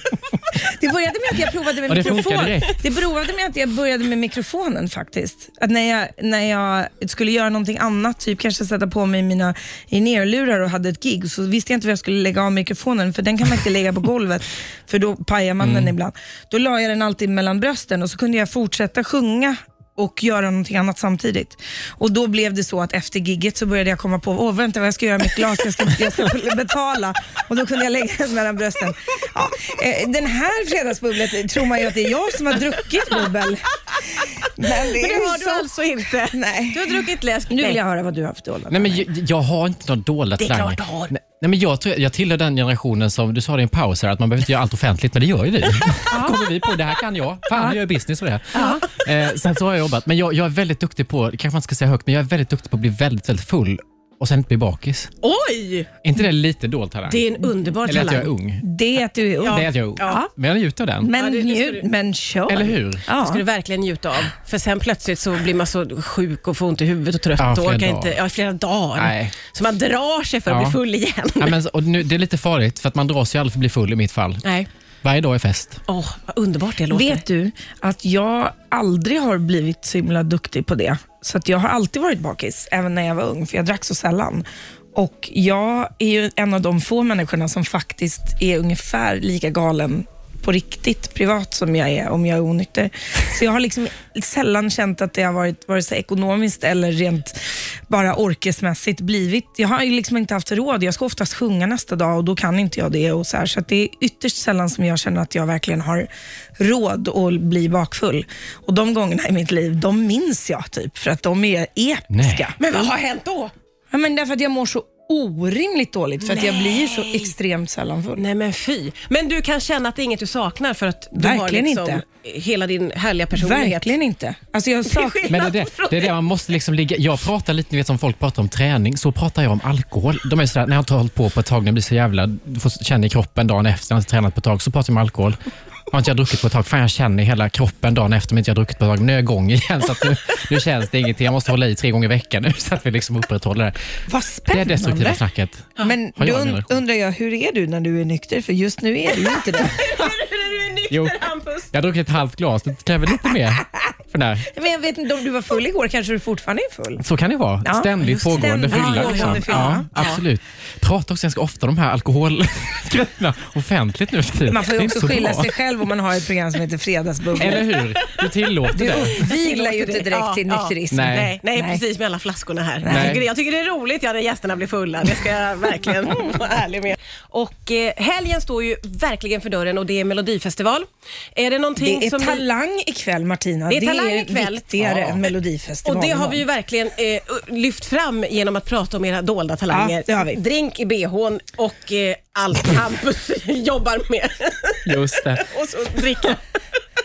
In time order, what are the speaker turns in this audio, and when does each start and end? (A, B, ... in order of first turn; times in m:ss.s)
0:00.8-0:35.7 A
0:01.9-0:02.8 B
0:15.6-0:15.9 B
0:34.6-0:37.8 C
0:36.3-0:39.1 A
0:38.7-0:55.1 B
0:40.4-0:41.1 C
0:46.1-0:46.4 A
0:48.5-0:48.9 C
0:55.2-0:55.9 C
0:56.0-0:58.6 B
0:57.1-0:58.3 C
0:57.4-1:00.3 A
0:59.4-1:00.2 C
0:59.5-1:01.1 B
1:01.0-1:03.4 A
1:01.1-1:01.9 C
1:02.5-1:03.0 B
1:03.2-1:11.6 C
1:07.4-1:08.2 B
1:09.0-1:09.4 B
1:10.5-1:10.8 B
1:11.4-1:14.4 B
1:14.4-1:14.7 C
1:15.0-1:15.8 B
1:15.9-1:17.2 C
1:16.9-1:52.9 A
1:52.1-1:52.5 B
1:52.6-1:53.5 C
1:53.9-1:58.2 A
1:56.2-1:57.3 C
1:58.2-2:03.9 C
2:01.1-2:02.0 A
2:03.3-2:05.3 A
2:04.9-2:06.2 C
2:05.3-2:15.4 B
2:15.9-2:23.8 B
2:24.1-2:25.2 A
2:24.5-2:26.8 B
2:25.8-2:29.8 A
2:29.6-2:31.7 C
2:30.9-2:31.2 B
2:31.7-2:34.5 B
2:34.5-2:37.0 A
2:37.0-2:45.5 B
2:37.6-2:39.9 A
2:38.7-2:40.2 C
2:44.5-2:47.7 A
2:47.4-2:49.2 B
2:47.4-2:48.3 C
2:48.7-2:51.8 A
2:48.9-3:02.4 C
2:50.9-2:51.4 B
2:52.8-2:53.2 A
2:52.9-2:53.2 B
3:01.8-3:06.4 A
3:03.7-3:05.3 C
3:04.8-3:05.2 B
3:05.8-3:16.4 C
3:09.7-3:10.4 A
3:14.9-3:15.4 B